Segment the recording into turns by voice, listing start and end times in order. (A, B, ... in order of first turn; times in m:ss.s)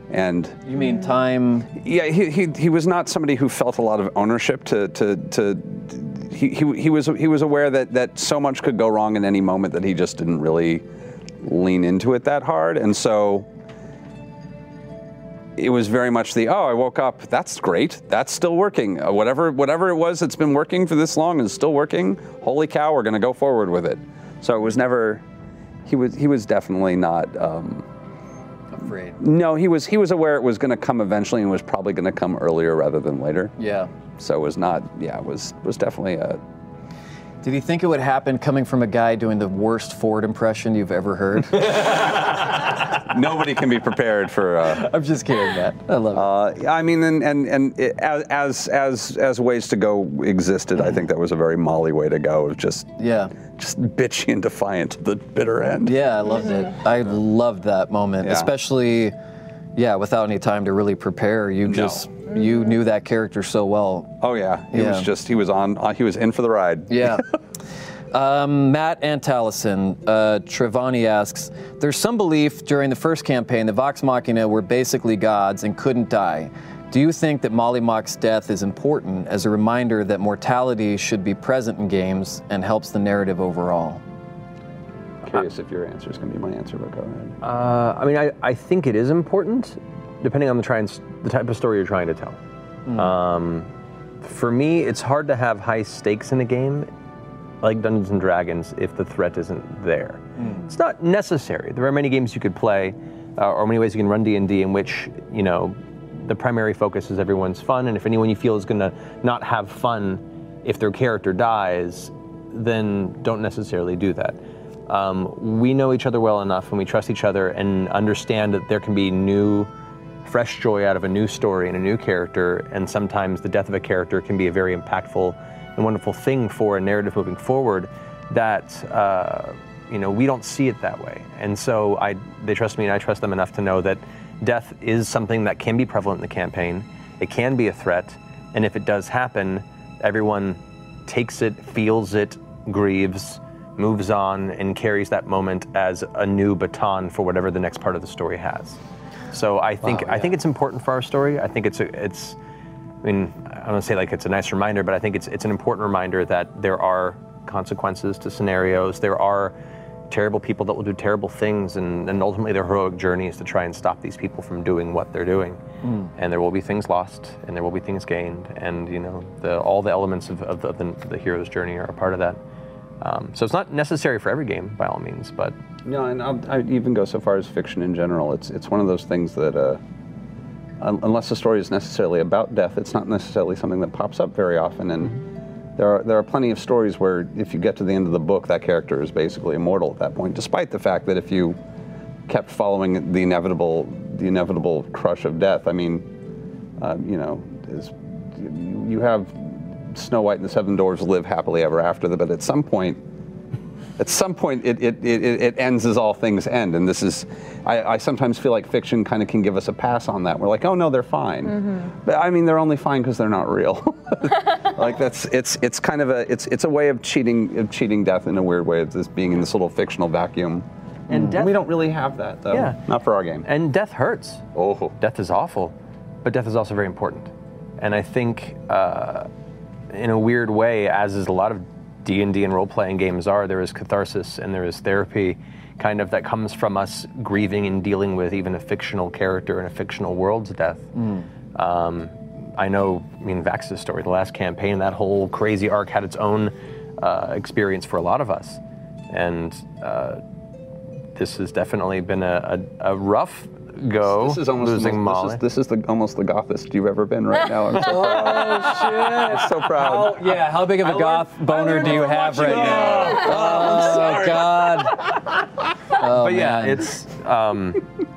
0:00.1-0:00.6 A
0:00.7-0:01.7 B
0:01.8-0:10.8 A
0:11.4-0:13.5 A
0:15.6-0:25.2 A
0:25.9-0:27.8 A
0:28.7-0:29.2 B
0:29.2-0:33.6 A
0:33.6-0:33.9 B
0:34.2-0:36.4 A
0:37.4-0:41.8 B
0:42.8-0:44.9 A
0:44.7-0:46.3 B
0:46.1-0:52.9 A
0:53.0-0:53.3 B
0:53.5-0:56.0 A
0:55.8-0:59.2 B
0:58.2-0:58.5 A
0:59.8-1:04.2 B
1:01.7-1:02.1 A
1:04.2-1:07.2 A
1:04.7-1:05.1 B
1:06.9-1:07.2 B
1:08.1-1:24.0 B
1:25.2-1:27.4 A
1:27.4-1:32.4 C
1:32.9-1:33.7 C
1:34.2-1:36.9 C
1:37.6-1:59.7 C
1:40.4-1:40.7 B
2:00.2-2:28.8 C
2:29.3-2:32.4 C
2:29.8-2:30.3 B
2:33.0-2:39.6 C
2:40.1-2:45.6 C
2:45.8-2:46.1 B
2:46.2-2:52.4 C
2:53.0-2:55.6 C
2:55.9-2:59.8 A
3:00.8-3:05.2 A
3:05.8-3:11.6 A
3:12.3-3:16.0 A
3:16.8-3:23.0 A
3:24.0-3:43.5 A
3:41.1-3:41.7 C
3:42.5-3:42.8 C
3:43.4-3:44.5 C
3:44.6-3:44.9 A
3:45.0-3:49.3 C
3:49.9-4:00.9 C
4:01.0-4:01.3 B
4:01.6-4:08.6 C
4:09.1-4:10.2 C
4:11.2-4:15.4 C
4:14.0-4:20.2 A
4:17.8-4:25.2 B
4:19.9-4:23.7 C
4:21.7-4:24.8 A
4:25.9-4:26.9 B
4:26.0-4:27.8 C